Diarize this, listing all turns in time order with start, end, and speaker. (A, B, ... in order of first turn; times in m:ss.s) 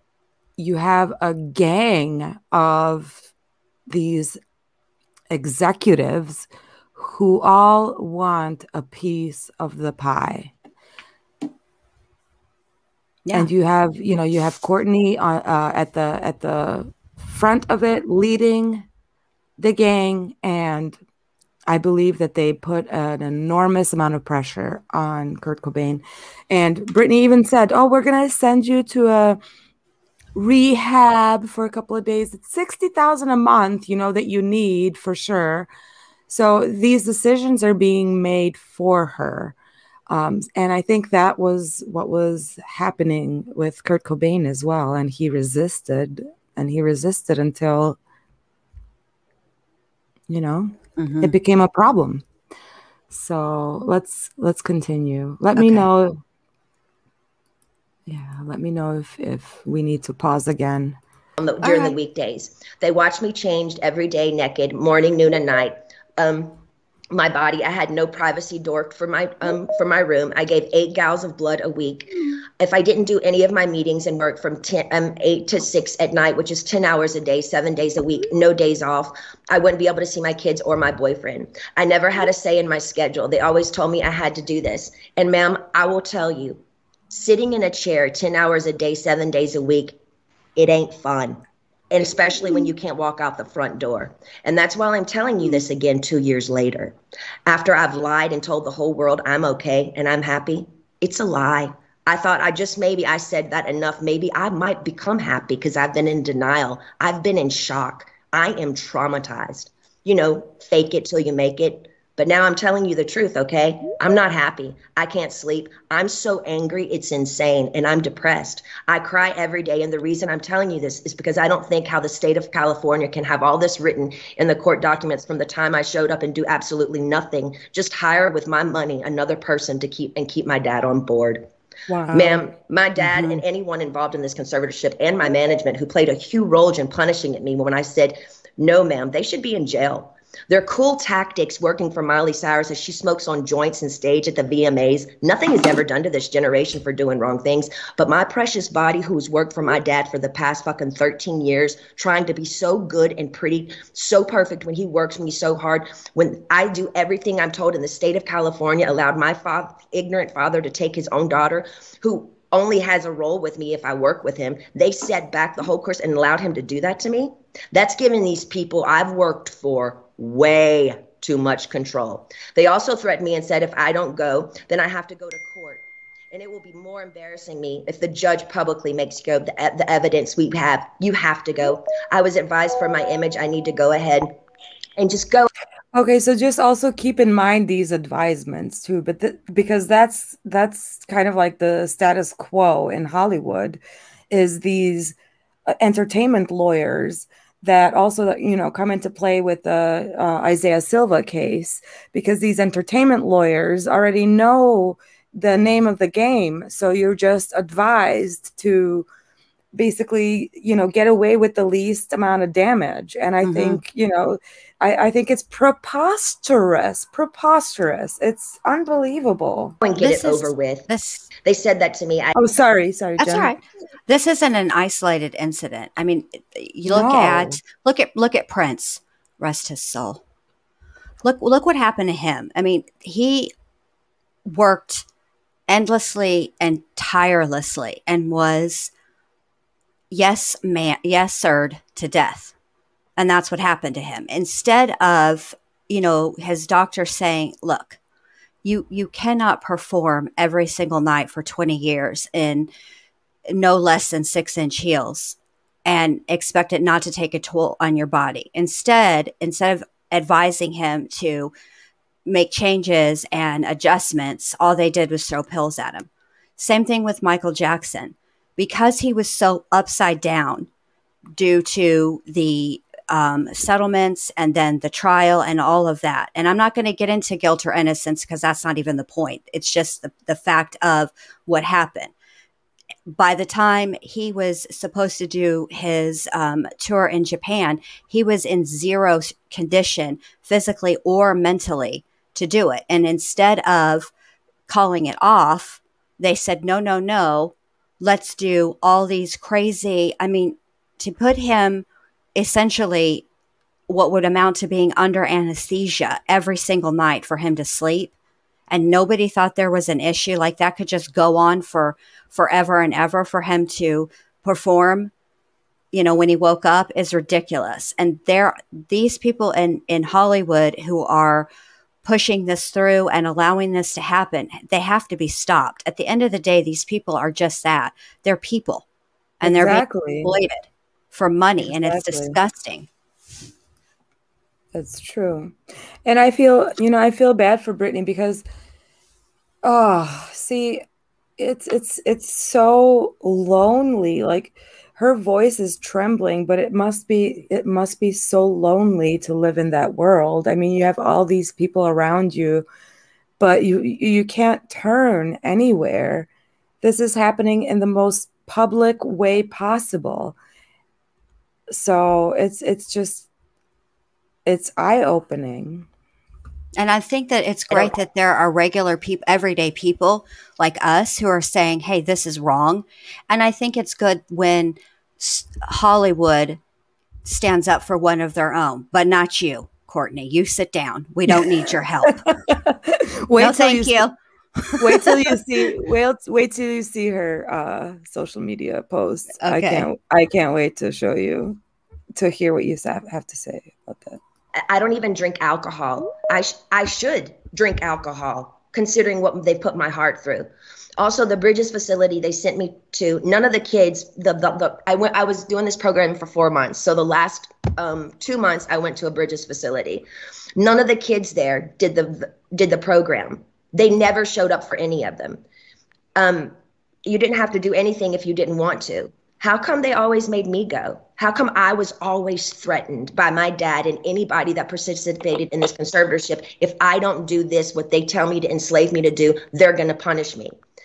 0:00.6-0:03.3 A
0:03.9-0:04.4 A
0:05.3-0:10.5 A
0:13.3-0:18.9 A
0:19.6-0:21.0 A
0:21.7-0:29.4 A
0:30.3-0:35.7 A
0:36.3-0:39.6 A
0:40.1-0:48.0 A
0:50.3-0:52.2 A
0:51.0-0:51.4 B
0:53.1-0:56.2 A
0:55.6-0:55.9 B
0:58.1-1:01.0 A
1:01.4-1:06.6 C
1:01.6-1:02.0 A
1:07.1-1:26.6 C
1:27.1-1:30.0 C
1:30.6-1:31.4 C
1:31.9-2:11.5 C
2:11.9-2:12.5 A
2:12.1-3:04.3 C
2:13.0-2:13.4 B
3:05.0-3:05.5 C
3:05.9-3:15.2 A
3:15.7-3:29.1 A
3:29.7-3:39.8 A
3:33.4-3:33.8 B
3:39.8-3:40.9 C
3:40.0-3:41.3 B
3:41.4-3:42.4 C
3:42.4-3:43.5 A
3:43.2-3:50.2 B
3:46.8-3:47.6 A
3:51.2-3:53.5 B
3:54.5-3:55.0 B
3:55.7-3:58.9 B
4:00.1-4:02.5 B
4:03.2-4:08.0 B
4:08.6-4:12.7 B
4:13.5-4:21.5 B
4:22.3-4:30.7 B
4:31.4-4:42.1 B
4:43.1-4:54.1 B
4:54.7-5:03.2 B
5:03.9-5:08.1 B
5:08.7-5:15.1 B
5:15.9-5:21.5 B
5:22.0-5:28.8 B
5:29.4-5:32.9 B
5:29.4-5:30.3 A
5:31.6-5:32.4 A
5:34.7-5:38.4 A
5:39.6-5:40.8 A
5:41.4-5:52.6 A
5:53.4-5:56.3 A
5:56.8-6:00.4 A
6:01.7-6:03.3 A
6:04.4-6:05.9 A
6:06.8-6:16.6 B
6:17.2-6:22.2 B
6:22.1-6:24.1 A
6:23.4-6:25.1 B
6:24.8-6:31.6 A
6:29.4-6:29.9 B
6:32.2-6:34.2 A
6:34.7-6:50.0 C
6:50.6-6:55.4 C
6:56.2-6:56.5 C
6:57.0-7:10.6 C